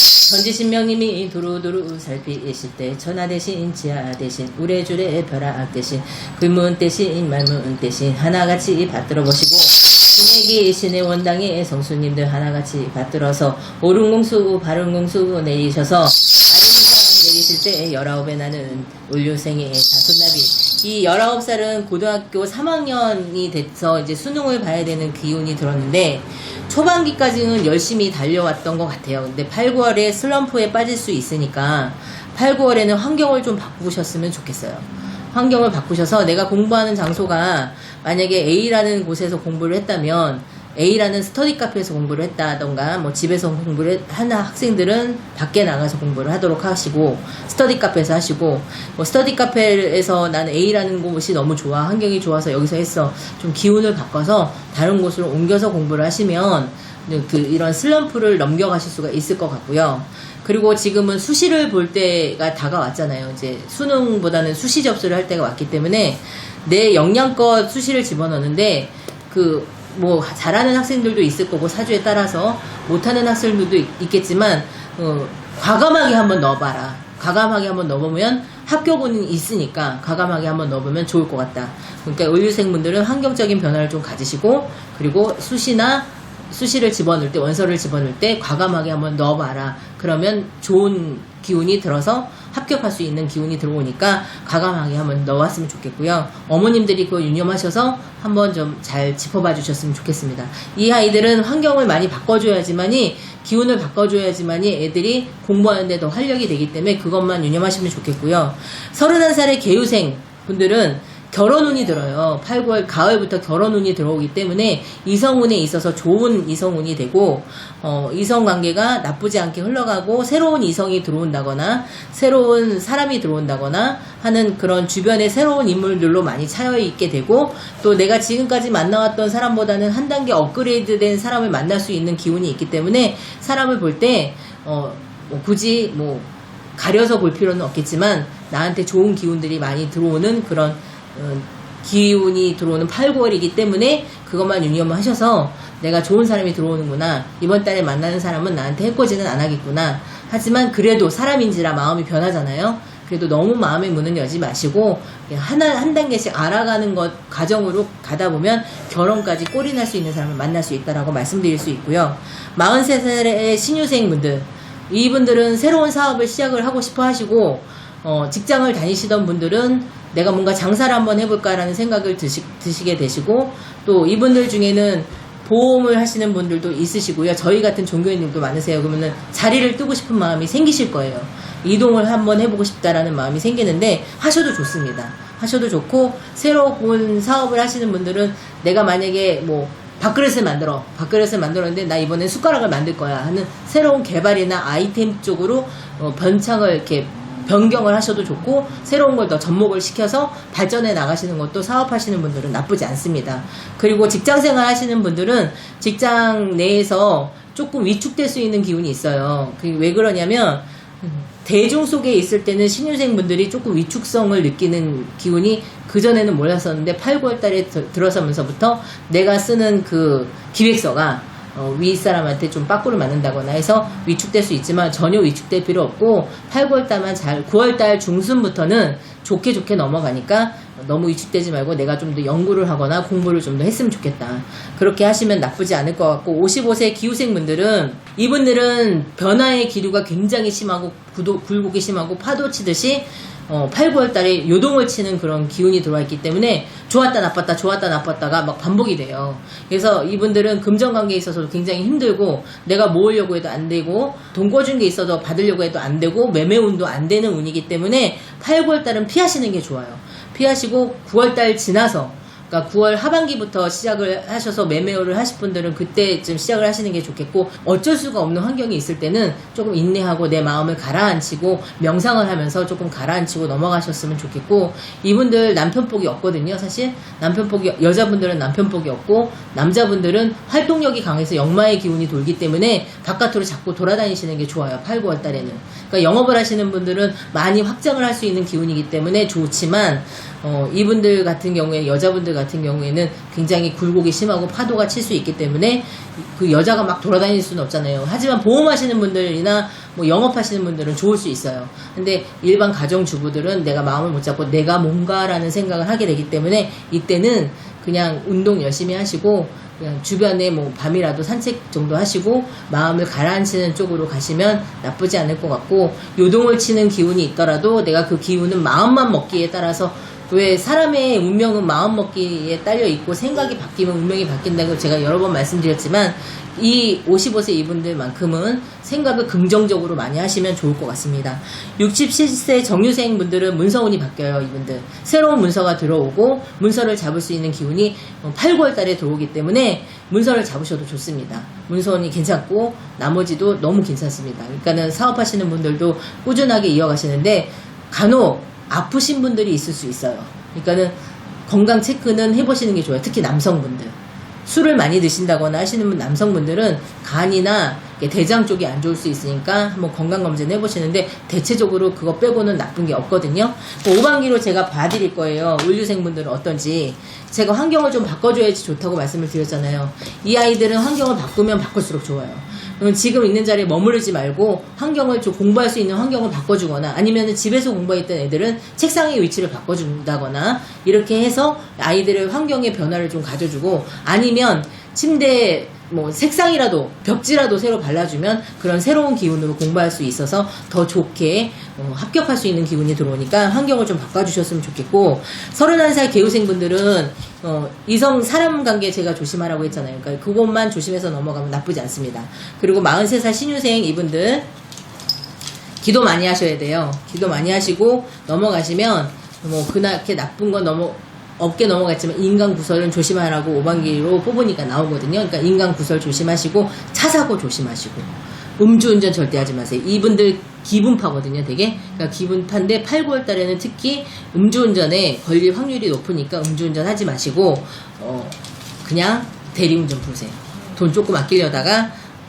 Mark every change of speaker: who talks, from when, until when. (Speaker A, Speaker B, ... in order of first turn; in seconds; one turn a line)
Speaker A: 0.2-404.5
Speaker A: 405.8-432.0